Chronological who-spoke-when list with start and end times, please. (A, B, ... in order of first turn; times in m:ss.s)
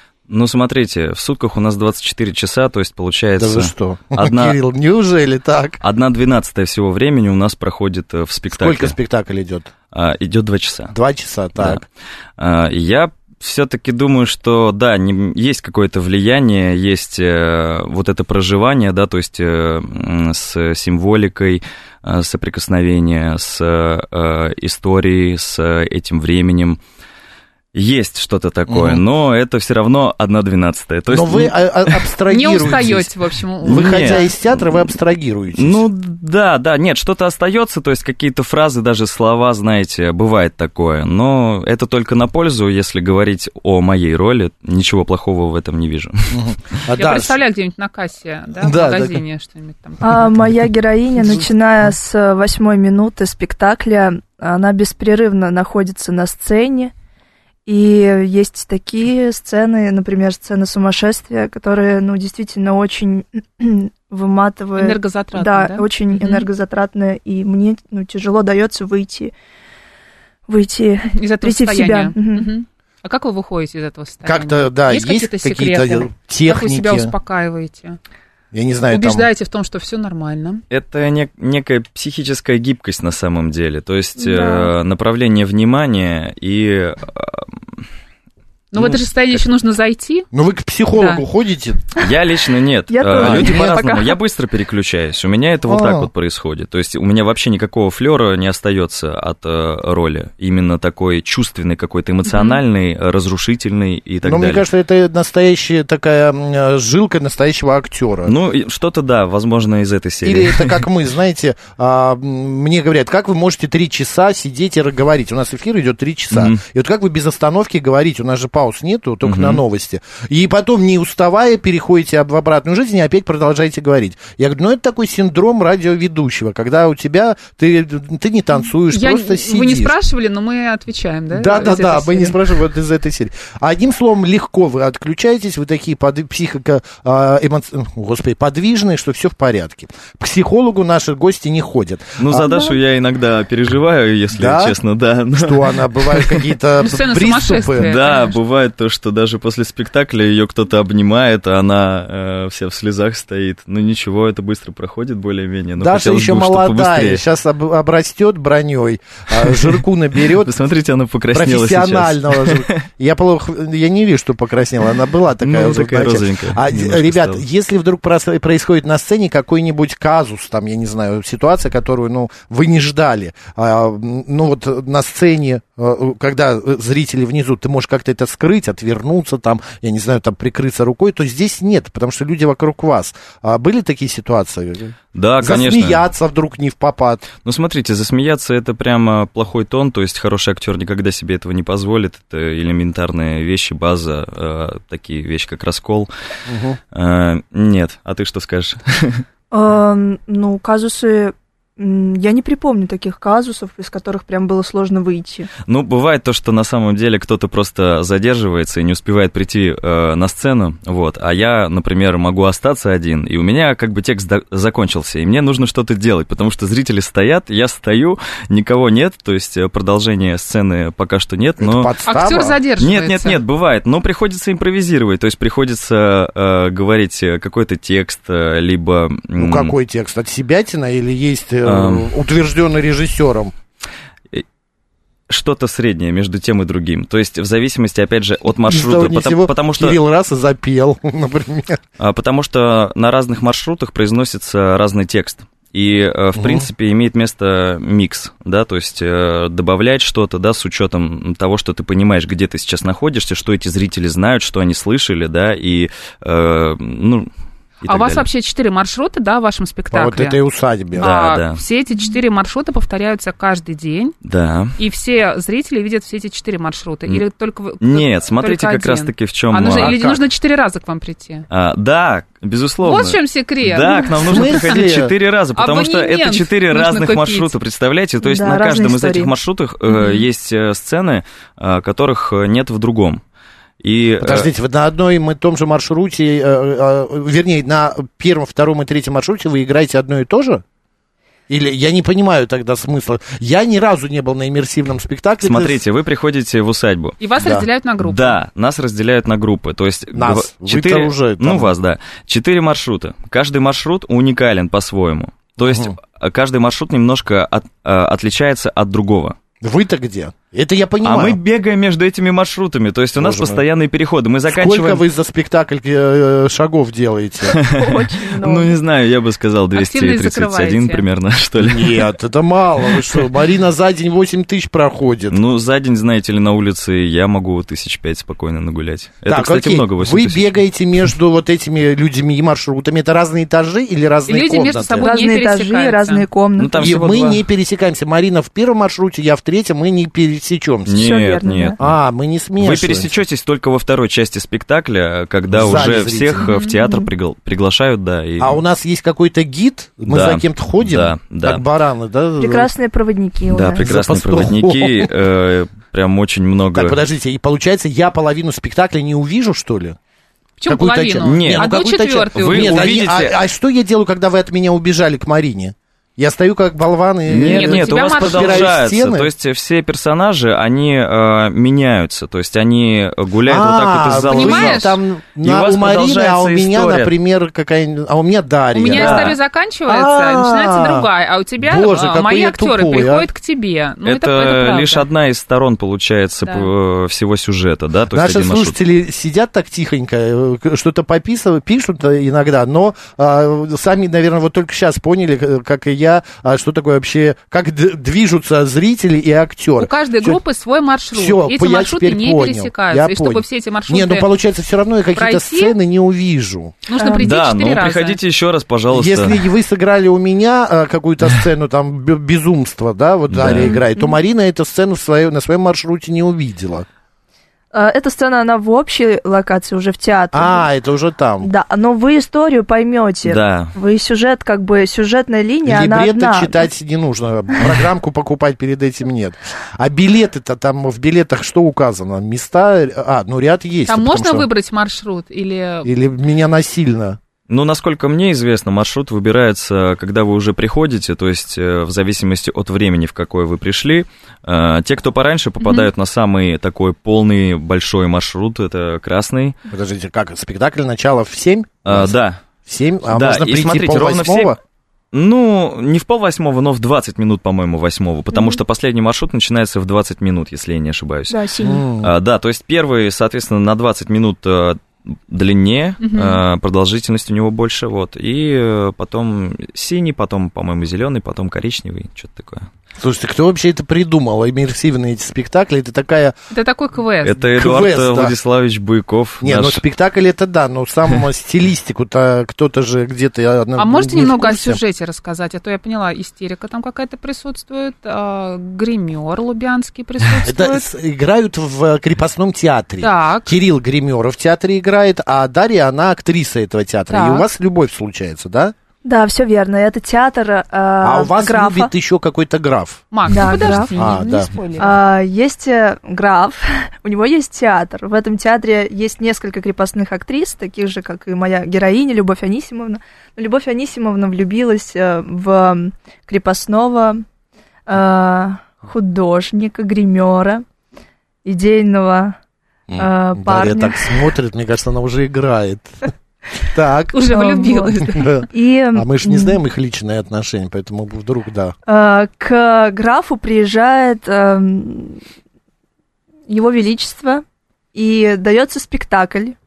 0:00.3-0:04.6 A
0:03.4-0:05.8 B
0:05.8-0:09.0 A
0:08.5-0:09.7 B
0:09.9-0:10.9 A
0:10.9-0:11.8 B
0:11.6-0:11.8 A
0:12.4-0:26.8 A
0:27.7-0:32.0 A
0:28.7-0:29.0 B
0:31.1-0:33.1 B
0:32.3-0:34.3 C
0:33.6-0:34.7 A
0:33.6-0:35.8 B
0:35.5-0:46.8 A
0:46.3-0:47.4 B
0:47.0-0:50.3 C
0:48.6-0:49.2 B
0:50.0-0:56.9 D
0:57.7-1:09.3 D
1:04.8-1:06.5 C
1:10.5-1:12.5 D
1:11.2-1:18.0 C
1:14.2-1:17.1 B
1:18.5-1:19.3 B
1:18.9-1:20.6 C
1:20.7-1:27.8 A
1:24.2-1:24.7 D
1:28.7-1:30.3 C
1:30.3-1:31.9 B
1:30.9-1:31.2 C
1:32.0-1:44.6 A
1:32.9-1:34.1 D
1:33.2-1:33.8 B
1:35.7-1:36.1 B
1:42.3-1:42.6 C
1:44.2-1:48.3 B
1:48.3-1:50.8 A
1:50.2-2:09.9 B
1:56.3-1:56.6 A
1:59.2-1:59.6 A
2:08.9-2:12.4 C
2:11.3-2:22.5 B
2:22.2-2:26.4 A
2:24.3-2:24.8 B
2:25.3-2:27.9 B
2:26.8-2:28.4 C
2:27.8-2:37.2 A
2:35.8-2:40.5 B
2:40.3-2:42.8 A
2:41.3-3:07.3 B
2:45.4-2:47.4 A
3:05.2-3:06.0 A
3:07.4-3:16.1 A
3:16.5-3:16.8 B
3:16.9-3:19.2 A
3:19.5-3:25.5 D
3:25.7-3:41.9 A
3:41.6-3:42.6 B
3:42.1-3:43.4 C
3:42.8-3:49.7 A
3:49.4-3:53.5 B
3:51.6-3:52.1 A
3:55.3-4:00.0 A
3:58.7-4:01.8 B
4:02.0-4:17.3 A
4:06.4-4:06.7 B
4:17.8-4:18.3 A
4:17.9-4:20.4 C
4:19.9-4:21.1 B
4:21.0-4:24.2 C
4:21.0-4:21.6 A
4:24.2-4:24.8 A
4:24.8-4:31.5 C
4:27.8-4:30.1 A
4:29.7-4:30.2 B
4:31.5-4:43.2 A
4:32.8-4:34.8 C
4:34.2-4:35.1 B
4:35.6-4:37.5 C
4:38.2-4:39.3 D
4:39.9-4:40.3 C
4:43.8-4:44.5 A
4:44.2-4:50.6 B
4:51.5-4:55.8 B
4:55.4-4:57.2 A
4:57.2-4:58.4 C
4:57.4-4:57.7 B
4:58.0-5:09.4 A
5:00.1-5:01.7 B
5:05.6-5:05.9 B
5:09.6-5:11.4 B
5:11.0-5:15.0 A
5:13.2-5:13.6 B
5:14.5-5:17.6 B
5:17.5-5:22.1 A
5:17.6-5:18.8 D
5:19.8-5:21.0 C
5:21.6-5:25.4 B
5:25.3-5:30.6 A
5:29.3-5:35.1 B
5:34.3-5:36.3 C
5:35.0-5:37.0 D
5:36.6-5:37.4 A
5:36.8-5:41.1 B
5:40.9-5:42.0 A
5:40.9-5:41.8 D
5:41.8-5:43.2 B
5:42.6-5:48.6 A
5:45.5-5:46.5 B
5:46.4-5:46.8 C
5:46.8-5:47.1 D
5:48.4-5:52.7 B
5:50.1-5:51.6 A
5:52.4-5:53.9 D
5:53.5-5:57.0 A
5:53.8-5:55.1 B
5:56.7-6:00.0 B
6:00.6-6:02.9 C
6:00.7-6:09.3 B
6:01.2-6:01.7 A
6:02.3-6:03.4 A
6:07.3-6:17.1 A
6:07.4-6:08.7 C
6:13.5-6:21.1 B
6:14.3-6:15.0 C
6:18.7-6:25.1 C
6:18.9-6:19.4 A
6:21.6-6:23.3 B
6:24.0-6:28.8 A
6:26.4-6:26.7 C
6:28.1-6:40.4 B
6:39.8-6:44.3 C
6:41.1-6:46.8 B
6:45.2-6:45.8 C
6:46.9-6:48.2 C
6:47.0-6:47.3 D
6:47.2-6:49.4 A
6:48.9-6:56.9 B
6:53.3-6:53.8 A
6:53.6-6:54.1 D
6:57.7-7:00.7 D
7:00.3-7:01.5 B
7:01.4-7:06.7 D
7:03.2-7:03.7 A
7:05.6-7:14.5 B
7:13.9-7:15.9 C
7:15.8-7:17.2 B
7:17.5-7:29.6 A
7:25.6-7:25.9 C
7:29.7-7:32.2 B
7:31.9-7:32.4 A
7:32.7-7:34.6 B
7:33.1-7:34.6 A
7:35.1-7:41.4 A
7:41.3-7:41.8 D
7:41.6-7:42.1 B
7:42.0-7:52.7 A
7:46.0-7:46.4 C
7:53.0-7:56.3 B
7:56.5-7:57.4 C
7:57.2-7:59.8 A
7:57.6-7:58.4 B
7:59.4-8:04.8 B
8:03.8-8:10.9 C
8:10.4-8:18.7 B
8:13.0-8:13.6 C
8:17.1-8:17.5 C
8:19.0-8:21.9 D
8:21.0-8:24.5 B
8:23.1-8:24.9 C
8:23.3-8:24.1 D
8:24.8-8:37.2 D
8:37.9-8:40.6 D
8:41.4-8:42.4 D
8:42.9-8:46.1 B
8:43.0-8:44.2 D
8:46.6-8:47.2 B
8:47.1-8:48.4 C
8:47.3-8:49.6 D
8:48.1-8:51.8 B
8:51.9-8:55.2 D
8:56.5-8:59.6 D